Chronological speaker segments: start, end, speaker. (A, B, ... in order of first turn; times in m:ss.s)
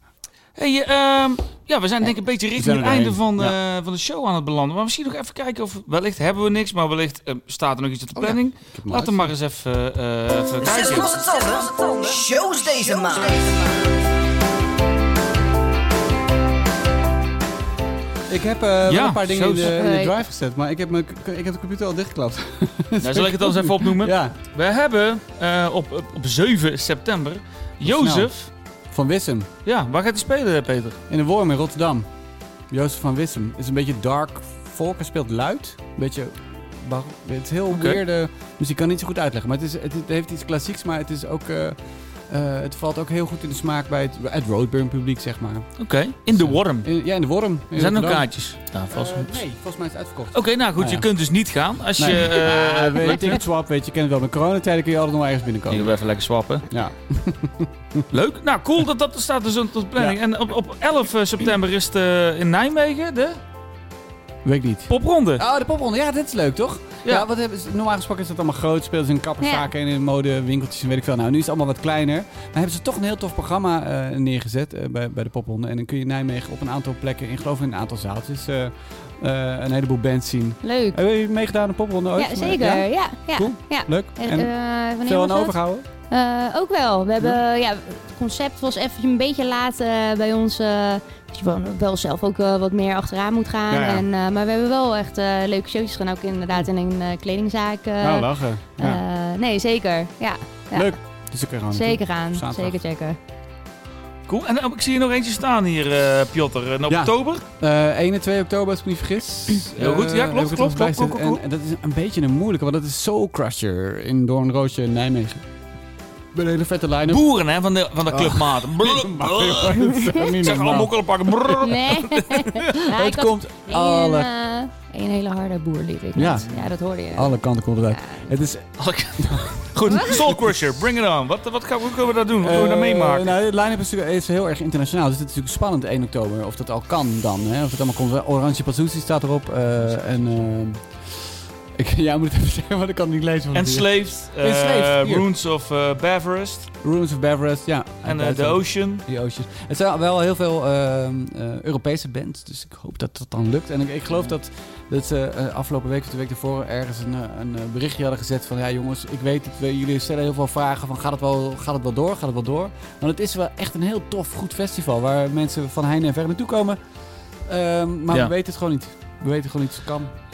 0:00.6-0:11.1 A
0:02.5-0:03.6 B
0:08.2-0:09.3 B
0:10.6-0:13.8 C
0:18.3-0:24.3 B
0:18.9-0:19.8 A
0:19.6-0:20.1 D
0:23.0-0:28.5 A
0:27.8-0:28.3 B
0:28.9-0:29.5 B
0:29.6-0:31.0 A
0:31.1-0:32.1 B
0:32.7-0:45.7 B
0:37.7-0:38.0 A
0:45.8-0:46.9 A
0:46.3-0:48.3 B
0:47.7-0:49.4 A
0:48.9-0:51.1 B
0:50.3-0:53.3 A
0:51.9-0:55.9 B
0:55.7-0:56.7 A
0:56.7-0:58.0 B
0:58.1-1:03.4 A
1:04.4-1:25.8 B
1:04.9-1:05.4 A
1:09.4-1:09.7 D
1:20.6-1:21.0 D
1:22.2-1:25.6 D
1:26.1-1:41.0 D
1:33.7-1:34.0 B
1:38.0-1:39.0 B
1:40.7-1:42.8 B
1:41.7-1:43.2 D
1:44.3-1:47.4 A
1:46.9-1:55.4 B
1:49.8-1:51.4 A
1:56.3-1:57.2 B
1:57.1-2:02.5 A
1:58.1-2:01.0 B
2:01.6-2:08.3 D
2:02.8-2:04.3 B
2:06.1-2:10.8 B
2:06.3-2:06.7 A
2:08.8-2:13.3 A
2:09.9-2:10.2 D
2:12.4-2:25.3 B
2:23.5-2:26.7 A
2:26.8-2:46.8 B
2:28.0-2:29.0 A
2:47.4-2:50.1 B